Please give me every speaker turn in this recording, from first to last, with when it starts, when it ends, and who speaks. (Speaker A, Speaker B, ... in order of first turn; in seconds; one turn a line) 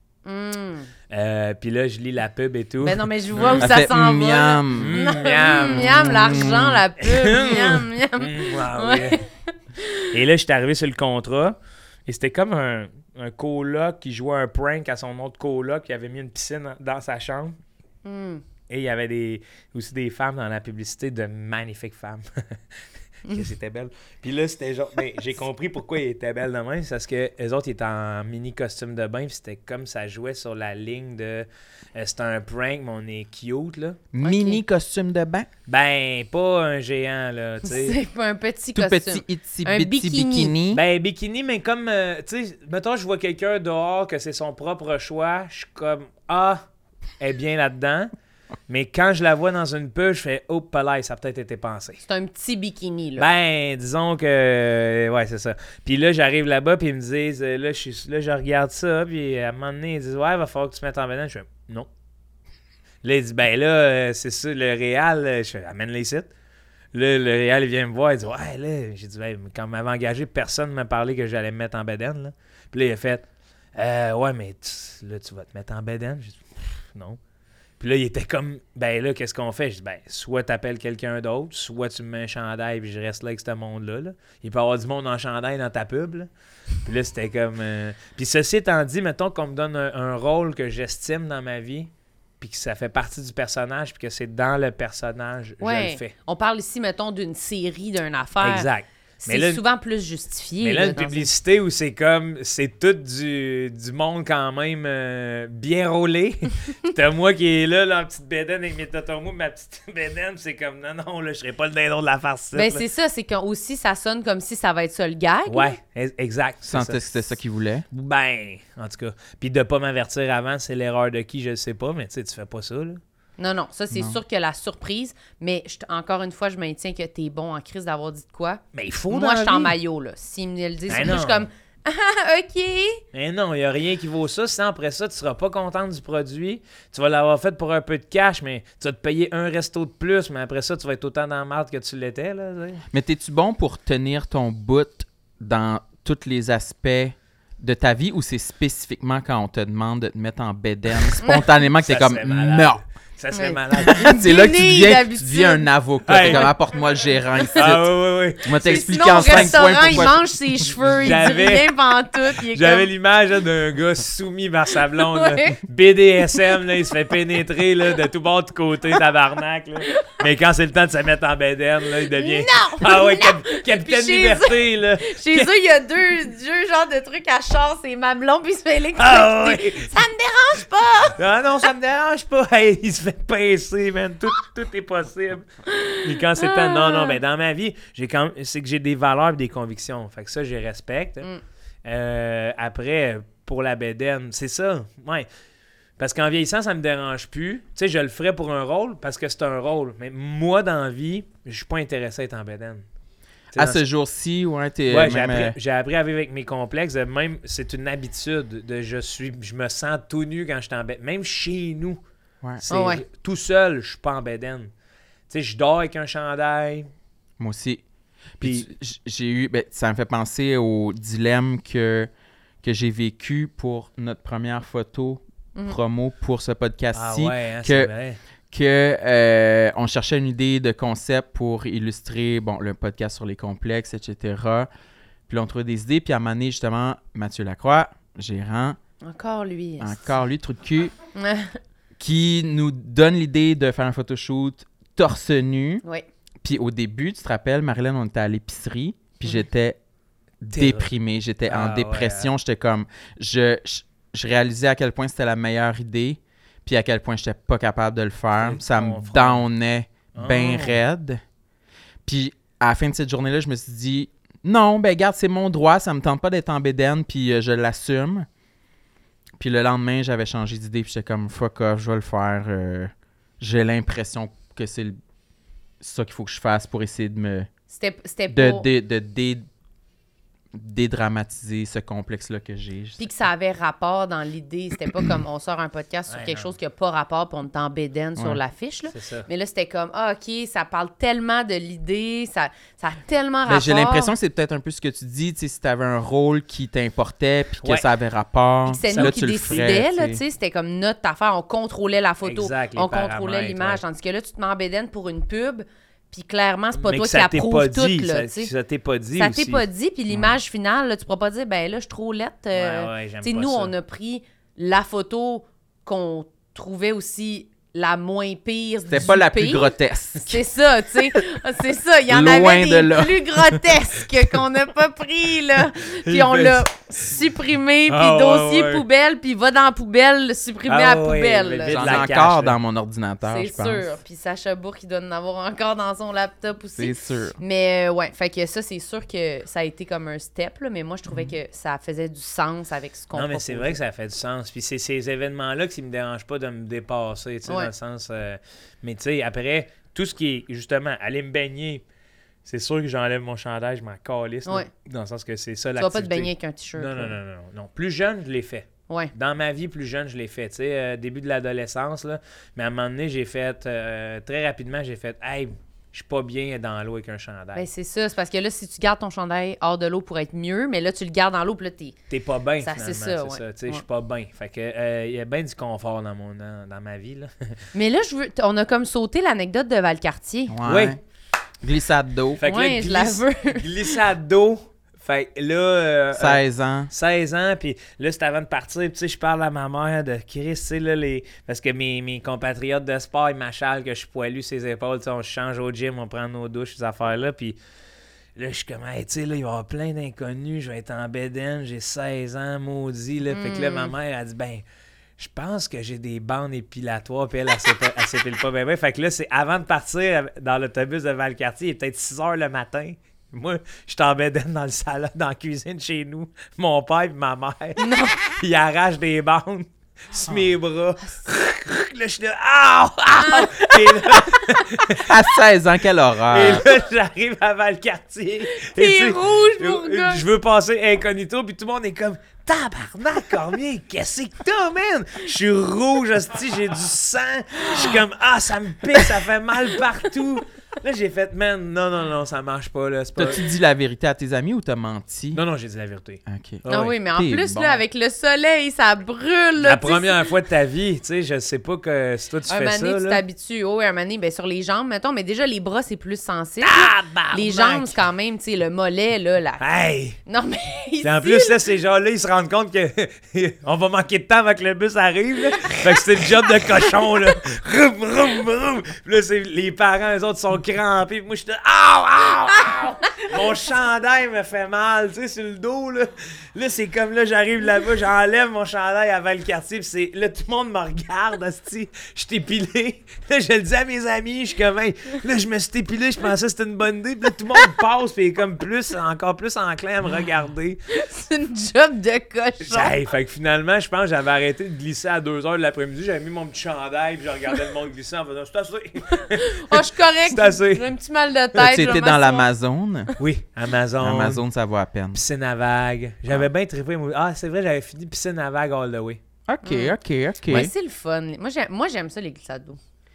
Speaker A: 0.2-0.9
Speaker B: 1.1-3.7
Speaker A: 2.8-10.1
Speaker C: 3.5-5.0
Speaker B: 4.7-6.0
Speaker C: 5.6-6.8
Speaker B: 7.0-9.2
Speaker B: 10.1-17.6
Speaker A: 18.0-18.4
Speaker B: 18.7-22.6
Speaker B: 23.3-34.0
Speaker C: 34.1-35.5
Speaker A: 34.2-34.6
Speaker B: 35.7-38.0
Speaker A: 37.6-40.5
Speaker C: 38.7-40.8
Speaker B: 40.7-46.6
Speaker B: 47.2-48.1
Speaker B: 48.7-52.0
Speaker A: 52.0-53.2
Speaker B: 53.2-61.9
Speaker B: 63.0-66.3
Speaker B: 66.9-77.2
Speaker B: 77.8-86.3
Speaker B: 86.8-96.1
Speaker A: 95.6-98.7
Speaker B: 98.4-99.6
Speaker A: 99.2-101.3
Speaker B: 100.6-112.8
Speaker A: 112.5-115.8
Speaker B: 115.5-117.3
Speaker C: 116.7-117.8
Speaker B: 117.9-123.0
Speaker A: 123.4-133.0
Speaker C: 123.9-124.2
Speaker B: 128.7-129.7
Speaker B: 130.9-131.4
Speaker B: 133.1-142.8
Speaker C: 142.9-152.8
Speaker A: 151.2-151.5
Speaker B: 151.8-154.1
Speaker A: 153.3-155.7
Speaker C: 153.8-160.9
Speaker B: 156.1-156.5
Speaker B: 157.5-160.0
Speaker A: 158.6-162.9
Speaker B: 160.9-161.7
Speaker B: 162.3-175.5
Speaker A: 164.9-165.6
Speaker A: 169.8-170.1
Speaker A: 172.1-181.2
Speaker B: 179.0-179.9
Speaker B: 181.1-185.5
Speaker A: 185.7-187.2
Speaker B: 186.0-191.3
Speaker B: 191.8-195.3
Speaker B: 196.0-202.8
Speaker C: 203.5-205.6
Speaker B: 203.5-203.8
Speaker B: 204.9-212.0
Speaker B: 212.6-214.7
Speaker A: 212.7-213.0
Speaker B: 215.3-216.9
Speaker C: 217.4-217.8
Speaker C: 218.4-222.1
Speaker B: 218.4-218.7
Speaker C: 222.6-227.9
Speaker B: 226.9-228.2
Speaker C: 228.5-234.7
Speaker C: 235.3-238.8
Speaker A: 239.0-240.1
Speaker C: 239.8-240.9
Speaker A: 241.1-241.6
Speaker C: 242.0-245.8
Speaker C: 246.4-249.8
Speaker C: 250.4-261.2
Speaker B: 250.5-250.9
Speaker B: 251.4-252.3
Speaker B: 258.4-259.4
Speaker B: 260.1-260.8
Speaker C: 262.1-268.3
Speaker C: 269.4-274.9
Speaker C: 275.8-277.5
Speaker A: 277.7-278.7
Speaker C: 278.3-279.4
Speaker C: 280.5-283.0
Speaker A: 283.0-294.1
Speaker B: 286.1-286.5
Speaker B: 288.9-289.3
Speaker C: 293.4-300.2
Speaker A: 298.7-308.5
Speaker B: 298.9-299.8
Speaker B: 302.2-303.8
Speaker B: 306.8-309.6
Speaker A: 309.1-319.7
Speaker B: 312.5-313.7
Speaker C: 318.9-320.4
Speaker A: 320.2-332.1
Speaker C: 322.1-323.8
Speaker B: 326.1-326.6
Speaker B: 327.9-328.8
Speaker B: 330.7-332.6
Speaker C: 331.7-333.9
Speaker A: 333.2-343.8
Speaker C: 336.8-337.4
Speaker B: 343.1-351.8
Speaker A: 347.4-347.7
Speaker B: 352.4-367.6
Speaker A: 355.8-357.1
Speaker A: 367.5-372.0
Speaker B: 372.1-377.3
Speaker A: 372.6-373.8
Speaker A: 377.7-380.6
Speaker C: 380.5-381.0
Speaker B: 380.6-381.0
Speaker C: 381.6-382.4
Speaker B: 382.4-397.6
Speaker A: 382.4-384.0
Speaker C: 386.1-386.9
Speaker B: 398.4-404.6
Speaker A: 403.3-403.9
Speaker B: 405.2-425.2
Speaker A: 417.8-418.2
Speaker A: 423.2-424.6
Speaker C: 425.0-426.7
Speaker B: 426.3-443.4
Speaker A: 428.5-430.2
Speaker C: 443.1-445.4
Speaker B: 445.3-447.0
Speaker C: 446.2-447.8
Speaker A: 446.7-450.3
Speaker B: 449.6-453.2
Speaker A: 452.5-459.6
Speaker B: 456.6-458.0
Speaker B: 459.6-460.2
Speaker A: 460.3-461.6
Speaker B: 461.0-490.8
Speaker A: 490.9-492.9
Speaker B: 492.6-500.9
Speaker A: 499.3-502.5
Speaker C: 501.6-503.1
Speaker B: 503.2-504.4
Speaker C: 504.0-505.2
Speaker B: 505.1-509.2
Speaker C: 509.5-510.7
Speaker A: 509.6-509.9
Speaker A: 510.5-512.8